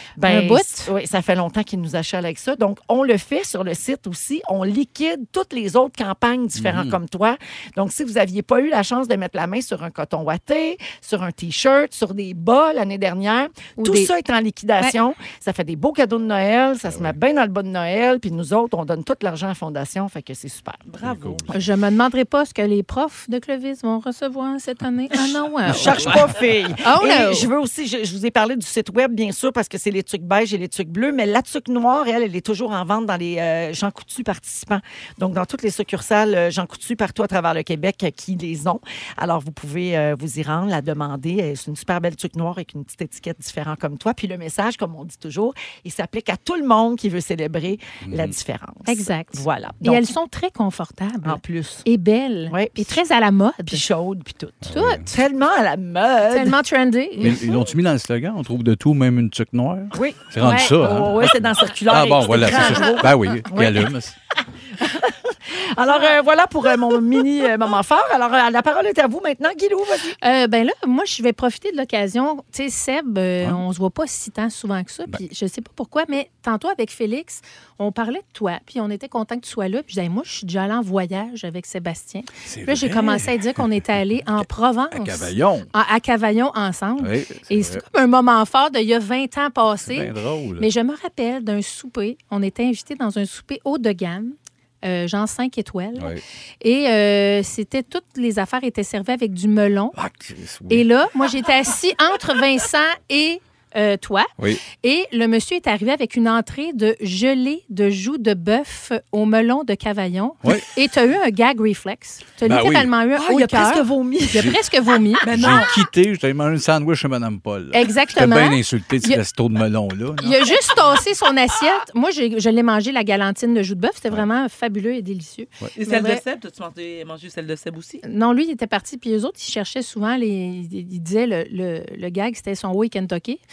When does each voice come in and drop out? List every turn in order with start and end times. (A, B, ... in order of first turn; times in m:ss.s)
0:00.2-0:20.8 A
0:00.2-0:00.9 B
0:06.6-0:07.0 C
0:13.8-0:14.1 B
0:16.9-0:17.1 C
0:20.9-0:21.6 D
0:21.0-0:21.5 C
0:21.5-0:26.2 B
0:25.7-0:50.1 A
0:25.8-0:26.2 C
0:26.8-0:27.5 B
0:48.0-0:48.4 C
0:48.9-0:53.8 B
0:51.2-0:51.9 A
0:52.5-0:53.0 A
0:53.7-0:56.6 A
0:54.7-0:55.1 C
0:54.7-0:55.1 B
0:56.3-0:57.5 B
0:57.2-1:04.1 C
0:59.9-1:03.9 A
1:00.4-1:00.8 B
1:02.4-1:03.1 B
1:04.8-1:10.2 A
1:10.2-1:40.0 B
1:22.5-1:23.7 C
1:24.4-1:25.7 C
1:27.0-1:27.8 C
1:29.8-1:30.7 C
1:40.0-1:40.9 C
1:40.7-1:55.3 B
1:52.4-1:52.9 C
1:53.2-1:54.6 A
1:54.3-1:54.6 C
1:55.2-1:55.7 D
1:55.2-2:00.5 C
1:57.7-1:59.2 B
2:00.2-2:06.2 B
2:05.8-2:08.0 D
2:08.0-2:13.4 B